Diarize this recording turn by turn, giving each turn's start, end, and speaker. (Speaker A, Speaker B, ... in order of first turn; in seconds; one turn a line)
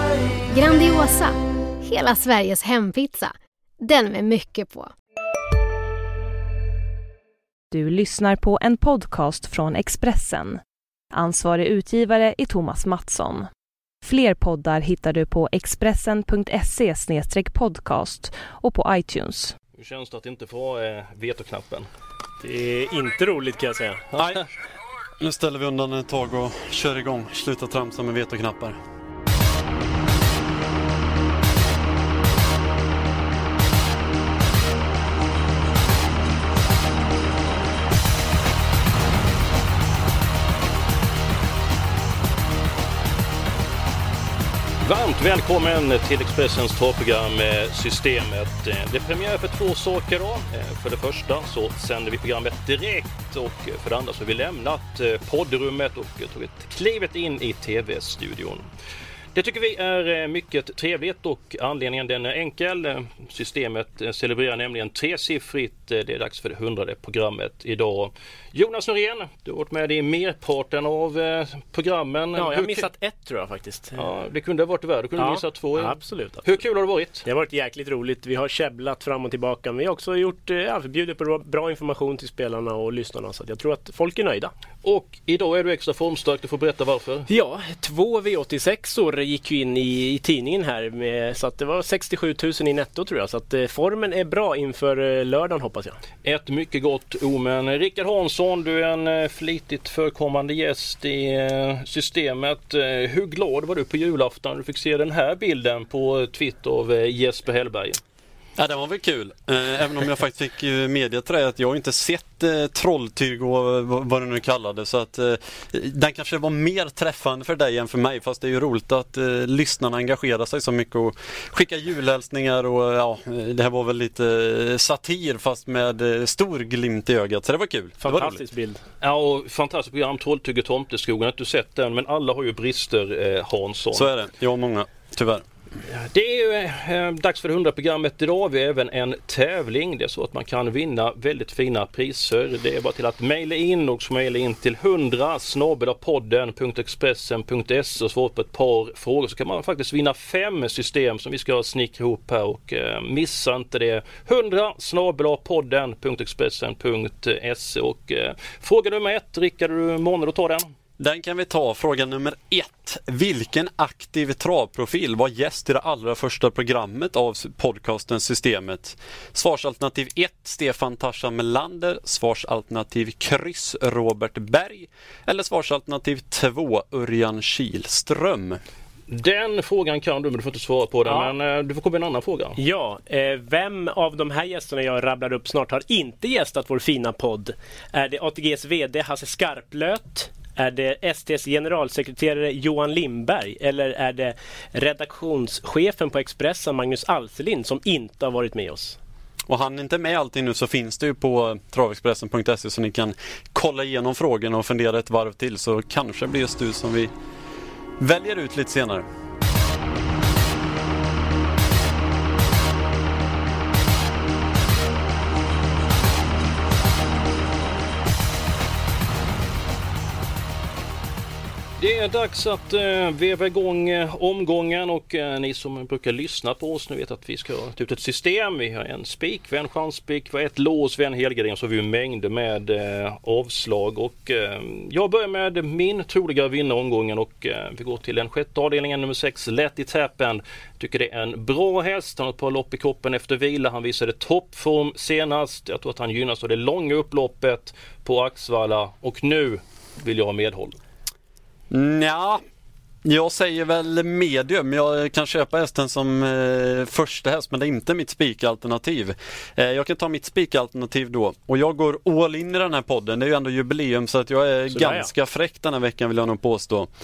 Speaker A: 0.5-4.9
Speaker B: 7.7-10.6
Speaker B: 11.1-13.5
Speaker B: 14.0-19.5
Speaker C: 19.8-21.9
Speaker D: 22.4-24.1
Speaker C: 24.1-24.4
Speaker E: 25.2-28.8
Speaker C: 44.8-58.7
Speaker C: 59.3-72.9
Speaker D: 72.3-74.0
Speaker C: 73.9-77.2
Speaker D: 75.2-76.5
Speaker D: 77.2-84.5
Speaker C: 84.8-87.3
Speaker D: 87.3-96.0
Speaker C: 96.2-108.0
Speaker E: 108.6-128.4
Speaker D: 128.0-128.8
Speaker C: 129.0-134.1
Speaker E: 133.9-135.4
Speaker C: 135.9-160.7
Speaker E: 161.0-178.6
Speaker C: 179.1-182.6
Speaker D: 181.1-181.3
Speaker D: 182.6-199.0
Speaker E: 199.5-207.1
Speaker E: 208.0-209.1
Speaker C: 221.8-250.8
Speaker E: 251.7-252.4
Speaker E: 253.0-266.9
Speaker D: 264.7-265.1